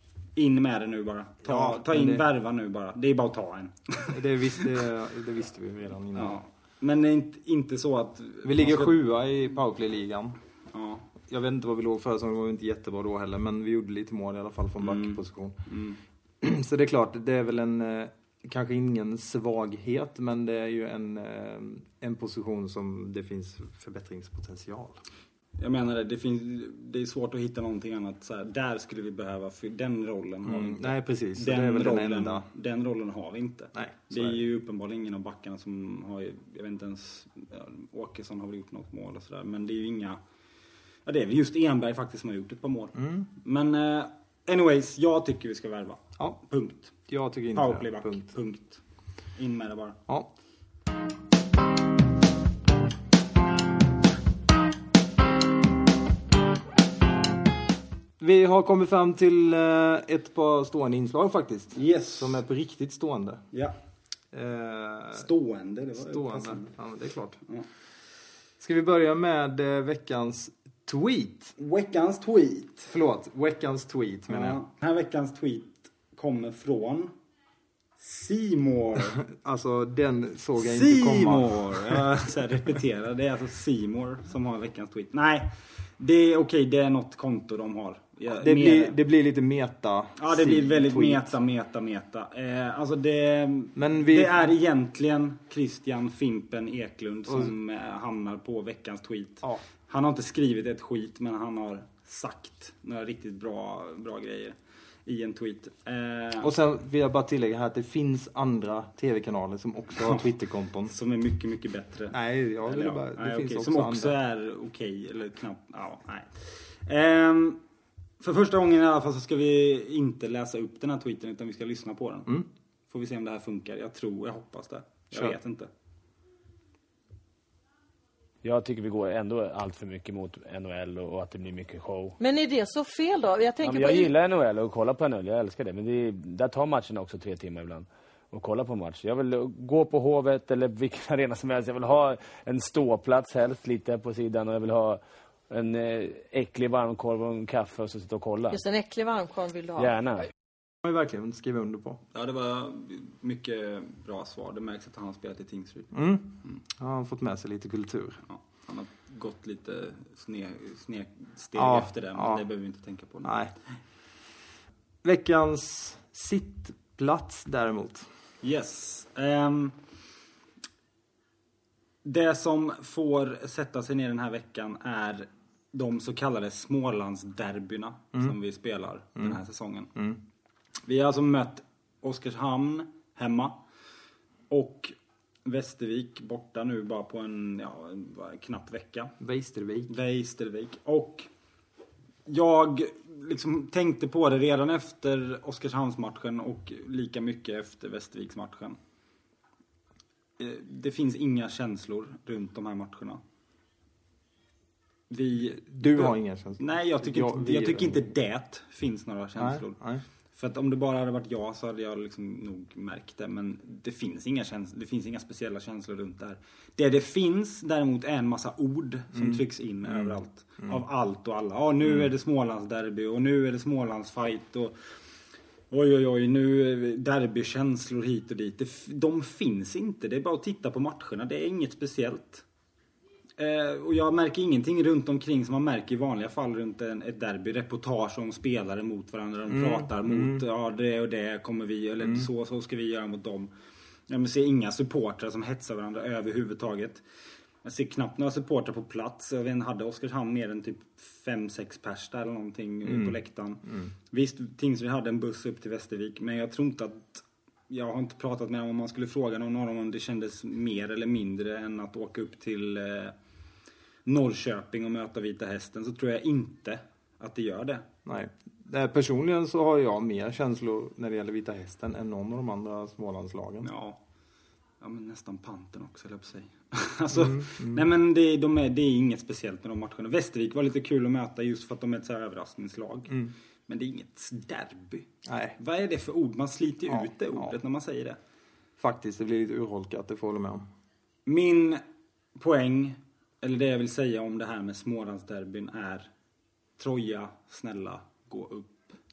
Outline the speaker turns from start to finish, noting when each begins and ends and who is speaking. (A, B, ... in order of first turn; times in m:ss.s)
0:00.4-0:04.7 A
0:01.4-0:02.3 B
0:04.1-0:06.4 B
0:06.2-0:09.0 A
0:08.4-0:10.4 B
0:10.7-0:11.1 A
0:11.3-0:15.6 B
0:14.8-0:16.0 A
0:16.4-0:25.0 B
0:25.6-0:40.2 A
0:30.5-0:32.5 B
0:33.7-0:34.4 B
0:41.1-0:47.0 A
0:43.0-0:43.3 B
0:47.1-0:48.3 B
0:47.5-0:48.8 A
0:49.4-0:50.0 A
0:58.2-1:03.4 B
1:01.8-1:02.4 A
1:04.3-1:05.3 B
1:05.1-1:06.7 A
1:06.0-1:07.4 B
1:08.6-1:11.5 B
1:11.6-1:12.9 A
1:12.9-1:14.6 B
1:14.3-1:17.1 A
1:18.0-1:19.2 A
1:19.2-1:22.1 B
1:20.6-1:29.0 A
1:28.3-1:31.4 B
1:30.2-1:46.5 A
1:33.8-1:34.5 B
1:46.4-1:50.9 B
1:50.9-1:57.6 A
1:52.1-1:54.2 B
1:58.2-2:05.7 A
2:08.4-2:12.2 C
2:12.2-2:14.1 D
2:13.6-2:28.6 C
2:28.5-2:29.9 D
2:29.8-2:30.3 C
2:30.8-2:32.0 B
2:32.1-2:36.6 A
2:35.9-2:38.2 B
2:38.3-2:43.4 A
2:41.6-2:42.4 B
2:43.2-2:43.5 B
2:45.0-2:48.1 B
2:48.4-2:49.8 A
2:52.0-2:59.9 A
3:00.9-3:03.6 A
3:04.5-3:05.0 A
3:05.5-3:09.1 A
3:09.2-3:09.9 B
3:09.9-3:11.3 A
3:12.3-3:18.8 A
3:20.4-3:23.2 A
3:25.1-3:29.8 A
3:25.6-3:28.1 B
3:29.4-3:30.0 B
3:30.3-3:44.8 A
3:39.1-3:40.8 B
3:45.7-3:52.4 A
3:53.4-4:03.5 A
3:59.5-4:00.4 B
4:04.1-4:07.0 A
4:07.6-4:23.2 A
4:12.8-4:13.2 B
4:13.7-4:13.9 B
4:24.0-4:27.9 A
4:28.0-4:33.7 B
4:33.6-4:34.0 A
4:34.8-4:48.2 A
4:37.1-4:37.8 B
4:45.3-4:45.6 B
4:46.9-4:47.6 B
4:48.8-4:50.6 B
4:51.3-4:51.8 A
4:52.4-4:56.1 A
4:56.8-4:58.9 A